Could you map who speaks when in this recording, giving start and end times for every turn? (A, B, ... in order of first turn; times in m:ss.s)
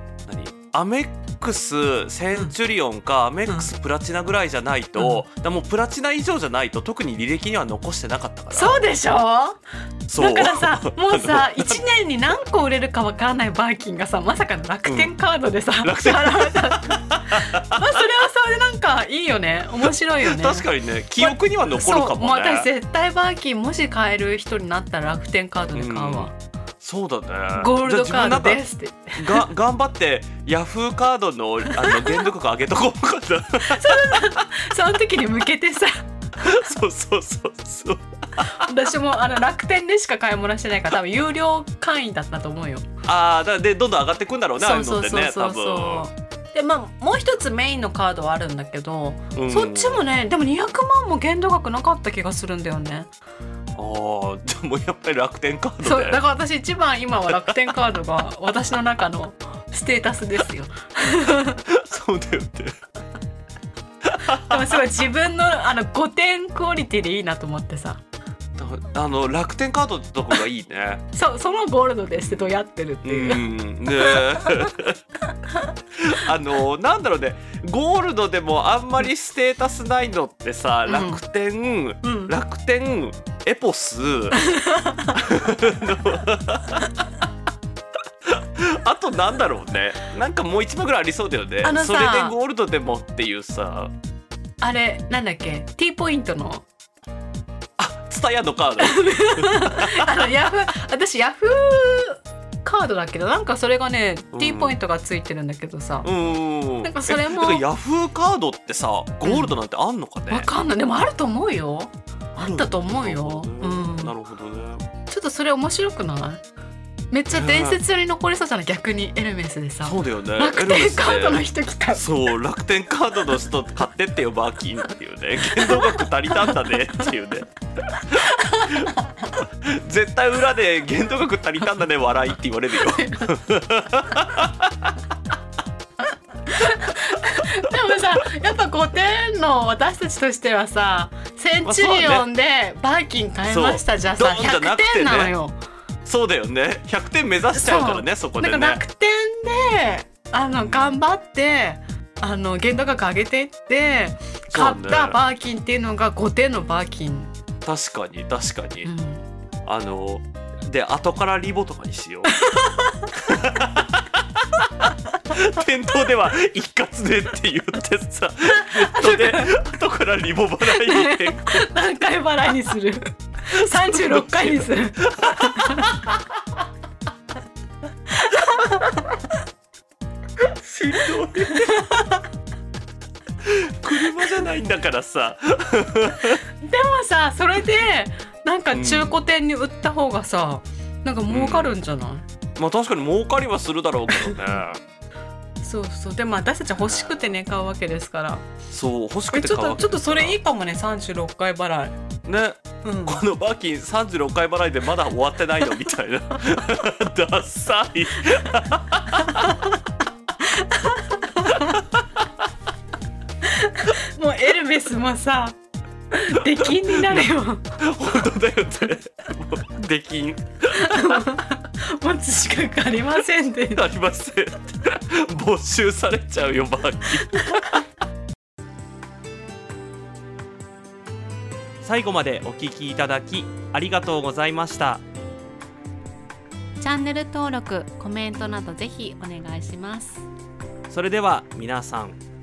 0:00.2-0:08.8 A
0:05.0-0:05.2 B
0:08.5-0:09.6 B
0:10.1-0:11.8 A
0:10.1-0:20.7 B
0:14.9-0:15.1 A
0:15.8-0:18.0 A
0:20.2-0:22.7 A
0:21.2-0:26.3 B
0:25.7-0:28.6 A
0:27.6-0:29.4 B
0:29.1-0:34.3 A
0:31.7-0:32.3 B
0:33.6-0:36.7 B
0:36.4-0:38.7 A
0:38.4-0:42.9 B
0:43.0-0:46.1 A
0:44.6-0:53.1 B
0:49.3-0:50.0 A
0:53.8-0:56.2 A
0:55.8-1:01.6 B
1:01.6-1:02.8 A
1:04.0-1:04.8 A
1:04.3-1:08.0 B
1:08.6-1:11.0 A
1:11.1-1:14.7 B
1:12.1-1:15.0 A
1:15.9-1:24.4 A
1:20.9-1:21.2 B
1:22.0-1:22.3 B
1:24.3-1:25.2 B
1:25.1-1:26.9 A
1:28.3-1:33.9 A
1:31.6-1:32.3 B
1:34.6-1:36.6 B
1:37.8-1:40.3 A
1:38.8-1:46.1 B
1:44.3-1:44.8 A
1:46.0-1:50.5 A
1:46.8-1:47.6 B
1:49.2-1:49.6 B
1:50.3-1:54.1 B
1:52.4-1:54.8 A
1:55.1-1:56.4 B
1:57.1-2:02.1 B
1:57.3-1:57.8 A
1:59.8-2:15.0 A
2:05.5-2:07.1 B
2:08.1-2:09.2 B
2:12.7-2:13.3 B
2:16.5-2:25.6 B
2:21.6-2:22.3 A
2:23.5-2:25.3 A
2:26.0-2:28.8 A
2:27.5-2:37.3 B
2:30.6-2:31.0 A
2:34.5-2:35.2 A
2:37.6-2:38.9 A
2:38.8-2:39.2 B
2:39.6-2:42.4 A
2:42.4-2:43.1 B
2:43.2-2:51.7 A
2:48.6-2:49.6 B
2:50.6-2:56.0 B
2:53.8-2:56.2 A
2:58.1-2:59.3 B
2:58.3-2:58.6 A
3:00.4-3:01.9 A
3:01.4-3:02.3 B
3:03.4-3:06.4 A
3:06.6-3:12.2 B
3:08.7-3:09.2 A
3:11.3-3:11.8 A
3:12.6-3:14.8 A
3:14.1-3:14.6 B
3:15.6-3:18.4 B
3:16.9-3:17.3 A
3:18.7-3:20.4 A
3:19.3-3:22.0 B
3:22.2-3:29.6 A
3:22.8-3:23.2 B
3:29.1-3:29.7 B
3:30.4-3:31.8 B
3:31.4-3:32.3 A
3:33.4-3:35.6 B
3:36.1-3:38.1 B
3:36.2-3:41.3 A
3:40.7-3:43.9 B
3:43.7-3:47.8 A
3:47.3-3:47.7 B
3:51.8-3:55.0 A
3:56.8-4:00.3 B
4:00.9-4:02.2 A